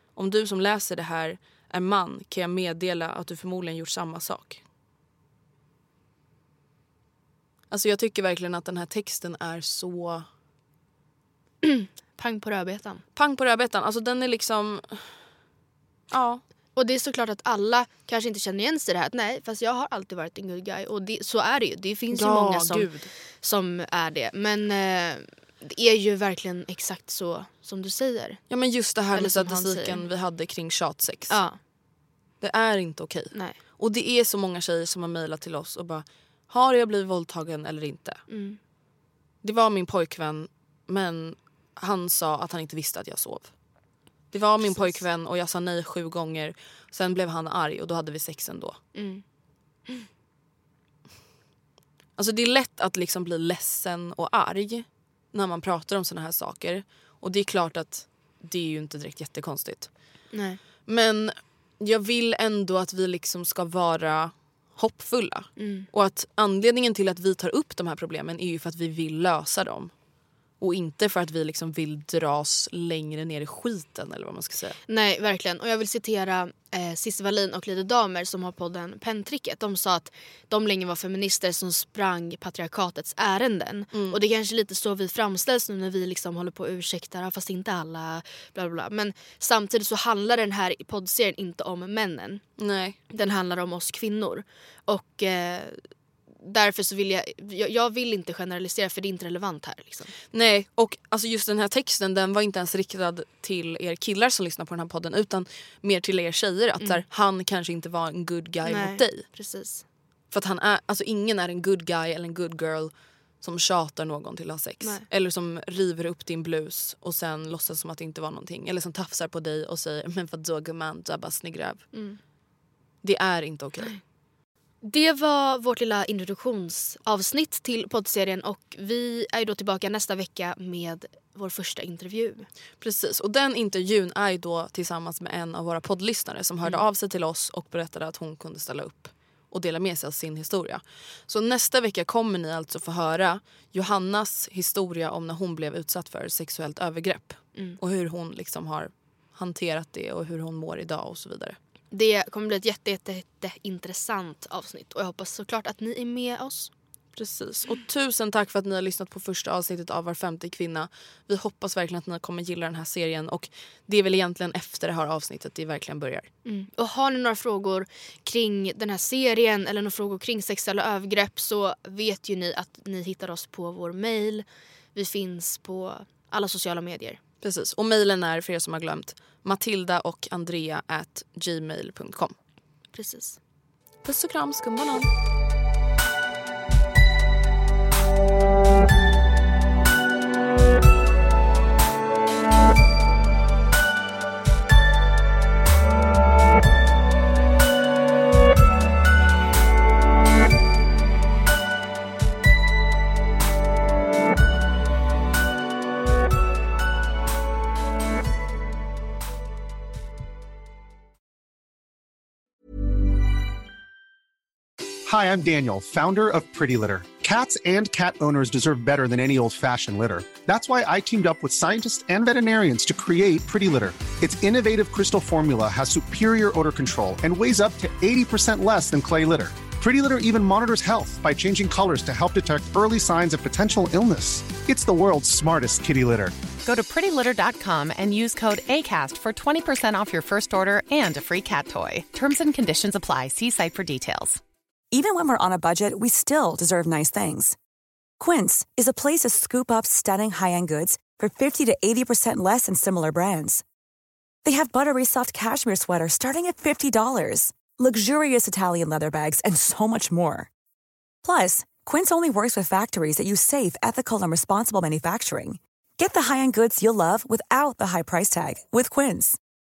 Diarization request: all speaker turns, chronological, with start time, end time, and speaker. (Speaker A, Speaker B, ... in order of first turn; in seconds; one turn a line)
Speaker A: 0.1-4.6
Speaker A: 7.7-10.2
Speaker B: 11.6-13.0
Speaker A: 13.2-15.1
Speaker A: 16.1-16.4
Speaker B: 16.8-22.9
Speaker A: 22.1-23.1
Speaker B: 23.4-28.4
Speaker A: 28.5-31.4
Speaker B: 29.1-30.0
Speaker B: 31.3-31.6
Speaker A: 32.4-38.2
Speaker B: 38.3-38.6
Speaker A: 39.4-43.5
Speaker A: 44.3-48.8
Speaker B: 44.6-45.0
Speaker B: 48.9-49.2
Speaker A: 52.2-59.9
Speaker B: 60.3-60.6
Speaker A: 60.9-69.9
Speaker B: 65.6-65.9
Speaker A: 70.6-74.8
Speaker B: 74.9-92.4
Speaker A: 83.9-84.2
Speaker A: 92.6-93.0
Speaker B: 93.1-95.8
Speaker B: 96.4-100.1
Speaker A: 100.3-109.2
Speaker B: 108.6-109.8
Speaker A: 110.3-121.8
Speaker B: 121.9-122.2
Speaker A: 123.0-123.9
Speaker B: 124.8-132.5
Speaker A: 132.8-151.6
Speaker B: 151.9-156.7
Speaker A: 157.2-166.3
Speaker B: 166.4-177.2
Speaker A: 177.4-182.3
Speaker B: 182.9-183.4
Speaker A: 184.0-185.1
Speaker C: 215.1-236.5
Speaker D: 236.6-244.4
Speaker E: 244.9-247.6
Speaker E: 248.2-253.6
Speaker E: 254.4-260.5
Speaker E: 261.2-269.4